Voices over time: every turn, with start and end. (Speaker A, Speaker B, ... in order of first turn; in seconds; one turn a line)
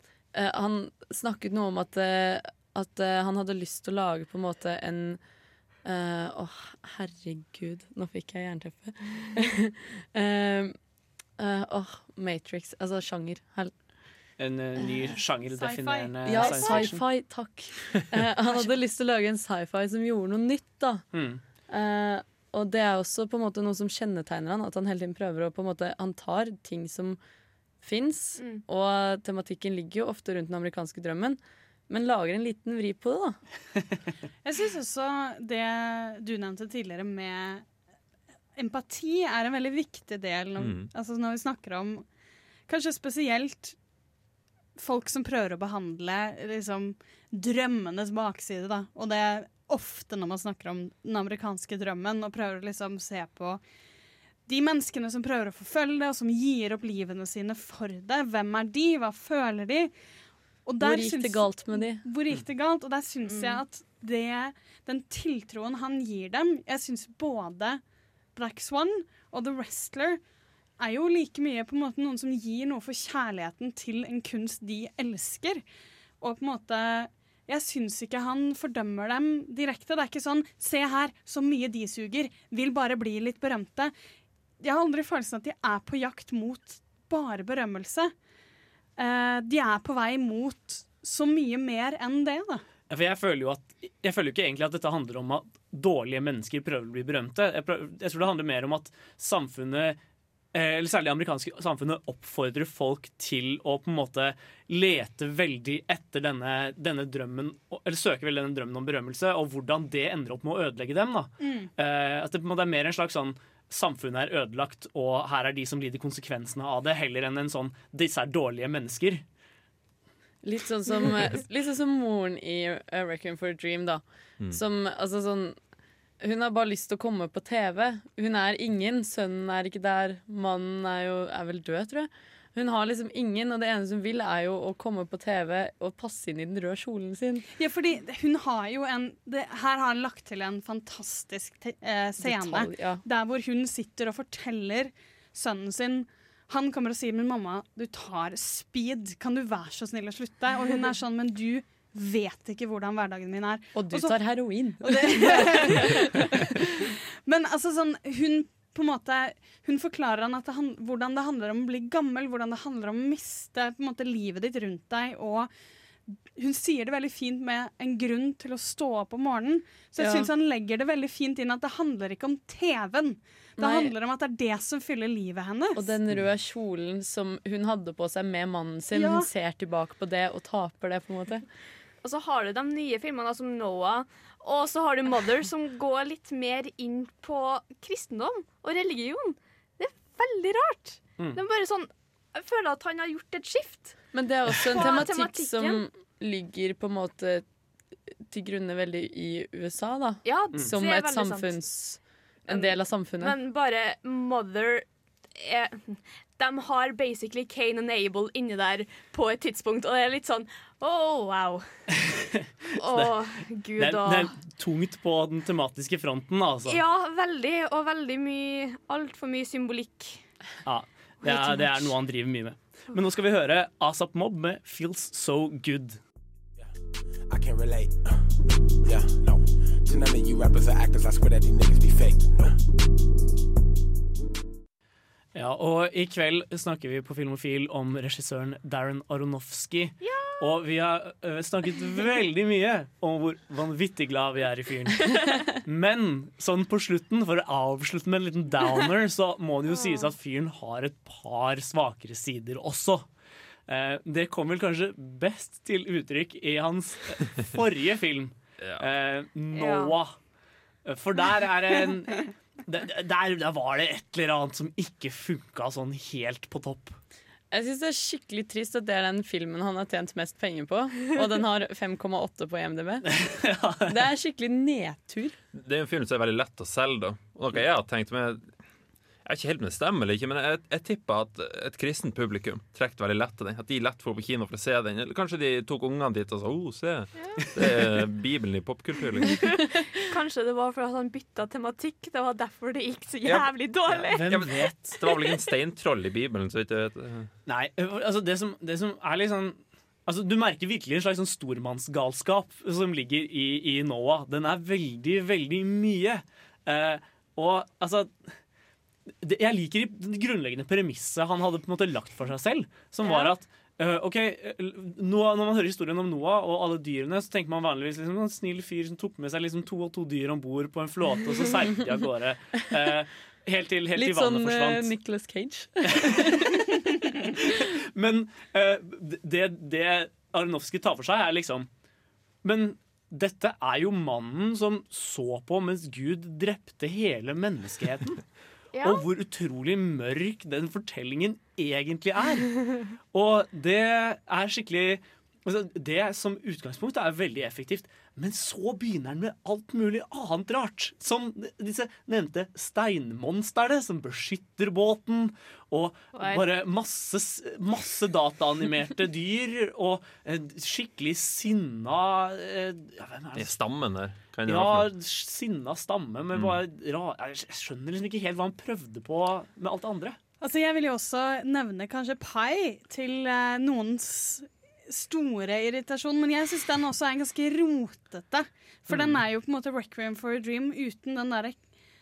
Speaker A: 0.3-5.2
Speaker A: 5.8-10.7
Speaker A: 11.4-13.7
Speaker B: 14.4-17.0
Speaker C: 15.5-16.9
Speaker A: 16.2-21.0
Speaker B: 21.1-21.4
Speaker A: 21.7-27.2
Speaker A: 27.8-33.4
Speaker C: 34.4-37.6
Speaker C: 38.5-42.0
Speaker D: 40.6-40.9
Speaker C: 42.7-43.8
Speaker C: 44.8-53.6
Speaker C: 54.5-59.9
Speaker C: 60.6-67.8
Speaker A: 60.8-62.0
Speaker E: 63.2-63.6
Speaker C: 68.3-70.2
Speaker C: 70.8-75.6
Speaker C: 76.2-83.9
Speaker C: 84.6-88.1
Speaker C: 89.0-92.6
Speaker B: 92.9-100.0
Speaker B: 100.5-119.2
Speaker C: 111.4-111.7
Speaker A: 120.4-125.6
Speaker A: 126.2-137.4
Speaker C: 137.6-154.2
Speaker A: 142.2-143.0
Speaker A: 153.7-156.2
Speaker C: 154.8-165.5
Speaker C: 166.1-175.9
Speaker A: 170.0-170.3
Speaker A: 173.6-173.9
Speaker A: 175.8-181.4
Speaker C: 178.9-179.3
Speaker E: 182.0-194.0
Speaker A: 194.1-197.4
Speaker E: 194.7-195.8
Speaker A: 198.3-203.3
Speaker E: 200.2-201.6
Speaker E: 202.5-211.7
Speaker B: 211.9-213.2
Speaker E: 212.8-214.3
Speaker B: 213.8-216.8
Speaker E: 216.7-220.2
Speaker B: 220.7-226.0
Speaker A: 221.2-221.9
Speaker F: 227.3-228.1
Speaker F: 228.8-232.5
Speaker B: 235.3-253.1
Speaker E: 240.0-240.5
Speaker E: 249.7-250.1
Speaker B: 253.7-260.1
Speaker E: 259.5-259.9
Speaker B: 260.9-267.0
Speaker A: 267.5-273.1
Speaker B: 273.1-273.9
Speaker A: 273.9-275.4
Speaker D: 275.5-278.5
Speaker D: 279.2-289.4
Speaker E: 289.2-294.5
Speaker D: 293.2-293.5
Speaker B: 293.9-295.0
Speaker D: 294.1-297.3
Speaker B: 297.4-308.1
Speaker B: 309.2-324.9
Speaker E: 313.0-313.3
Speaker A: 323.9-326.6
Speaker B: 325.9-326.6
Speaker B: 327.3-331.7
Speaker B: 332.4-338.2
Speaker E: 338.7-339.1
Speaker B: 338.8-363.6
Speaker E: 356.1-356.4
Speaker D: 363.3-364.9
Speaker B: 364.4-370.2
Speaker D: 366.3-366.6
Speaker C: 370.4-381.6
Speaker B: 378.9-379.2